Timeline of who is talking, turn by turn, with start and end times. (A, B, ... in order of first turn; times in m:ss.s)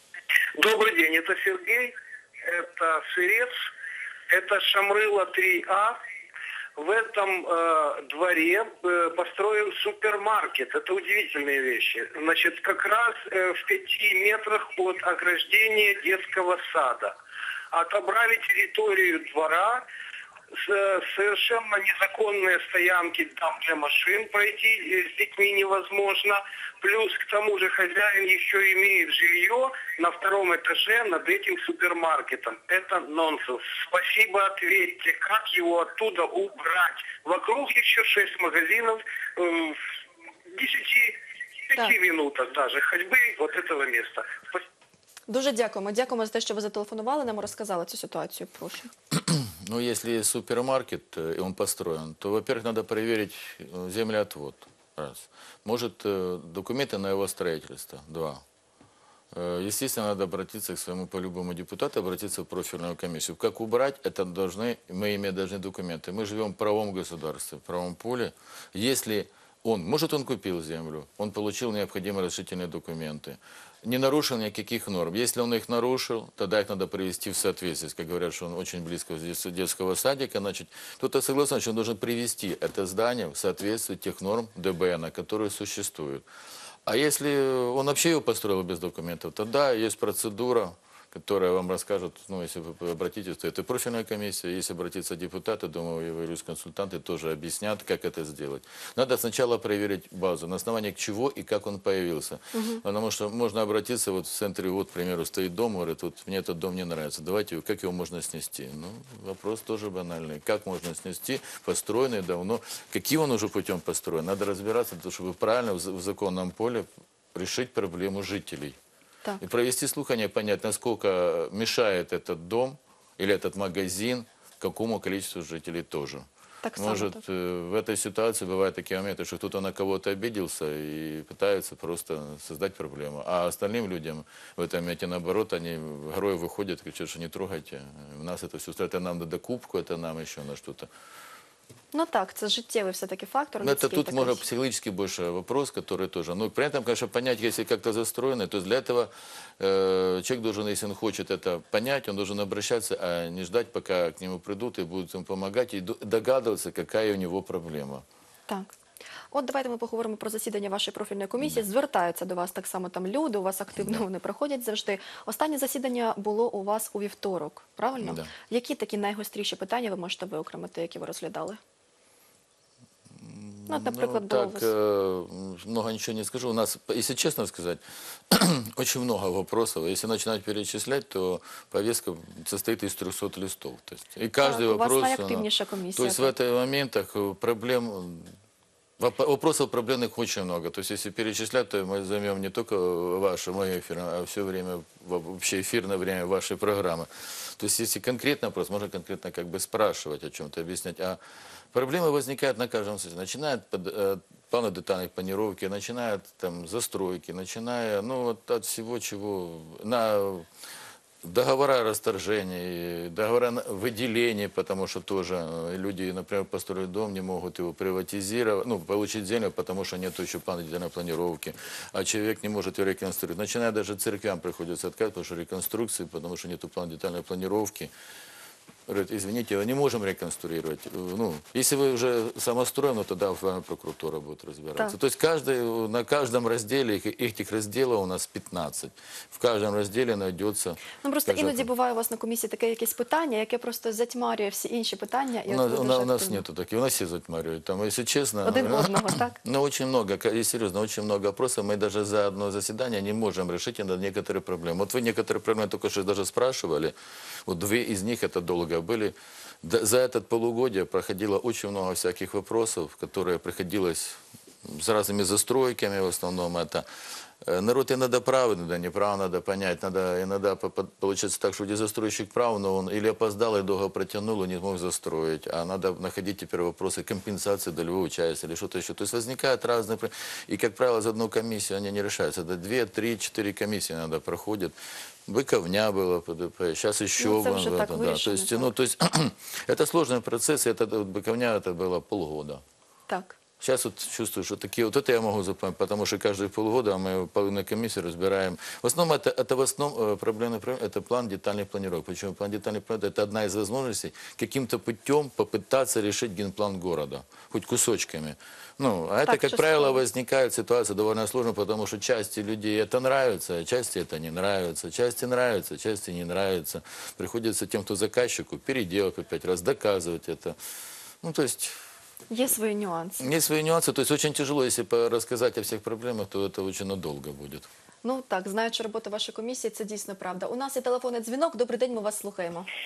0:00.6-0:01.9 A
0:02.4-0:03.5 A
0:04.3-0:06.0 A
0:06.8-0:17.1 A
0:17.7-0:19.8 A
0:20.6-0:39.8 A
0:40.5-0:41.2 A
0:41.7-0:44.6 A
0:45.3-0:48.9 B
0:49.2-0:58.4 C
0:59.3-1:26.3 C
1:26.9-1:58.8 C
1:42.5-1:42.8 B
1:59.4-2:06.2 C
2:06.6-2:07.2 B
2:06.8-2:20.9 C
2:21.9-2:24.4 B
2:23.6-2:38.0 C
2:39.3-2:51.6 B
2:43.8-2:44.0 C
2:48.0-2:48.3 C
2:53.2-3:08.3 C
2:53.7-2:54.7 B
3:04.4-3:06.3 B
3:09.0-3:21.2 C
3:21.7-3:30.5 C
3:31.2-3:47.9 C
3:48.9-4:01.7 C
4:01.0-4:06.4 B
4:05.5-4:17.0 C
4:08.4-4:09.4 B
4:17.5-4:26.9 C
4:27.4-4:44.8 C
4:45.3-4:52.6 C
4:47.2-4:48.7 B
4:53.1-4:53.4 B
4:53.6-5:20.6 C
5:09.3-5:10.0 B
5:21.2-5:21.8 C
5:22.3-5:23.3 B
5:23.2-5:27.7 C
5:28.0-5:32.7 B